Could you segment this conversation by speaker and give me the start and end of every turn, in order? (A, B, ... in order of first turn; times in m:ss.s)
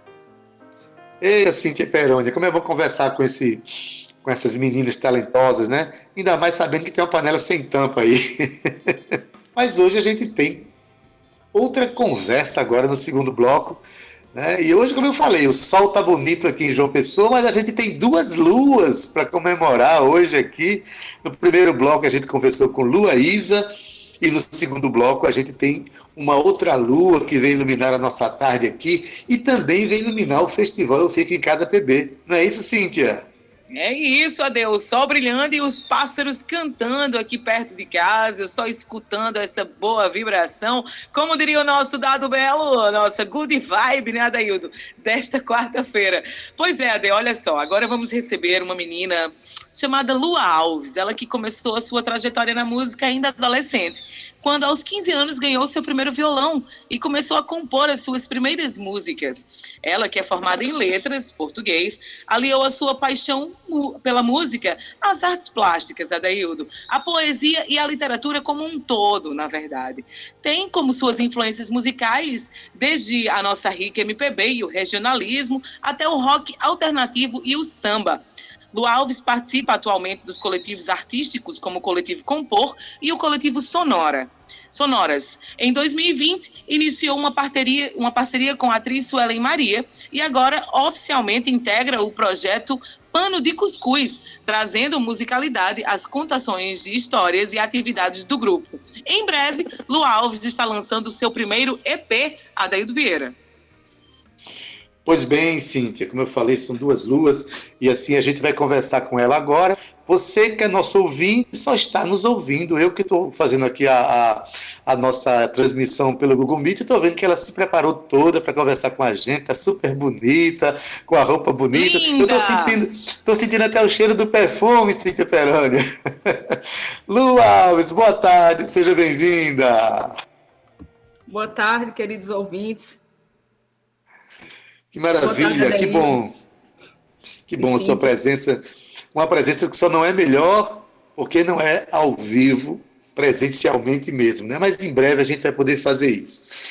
0:01.2-0:10.7 A
0:11.5-0:13.8 A
0:14.3-0:33.3 A
0:33.7-1:18.2 B
1:18.7-1:43.4 B
1:45.0-2:10.2 A
2:01.7-2:02.8 B
2:11.3-2:13.0 C
2:14.9-2:16.4 A
2:15.2-2:16.2 C
2:17.5-2:18.6 A
2:17.6-2:18.1 C
2:19.1-2:26.5 A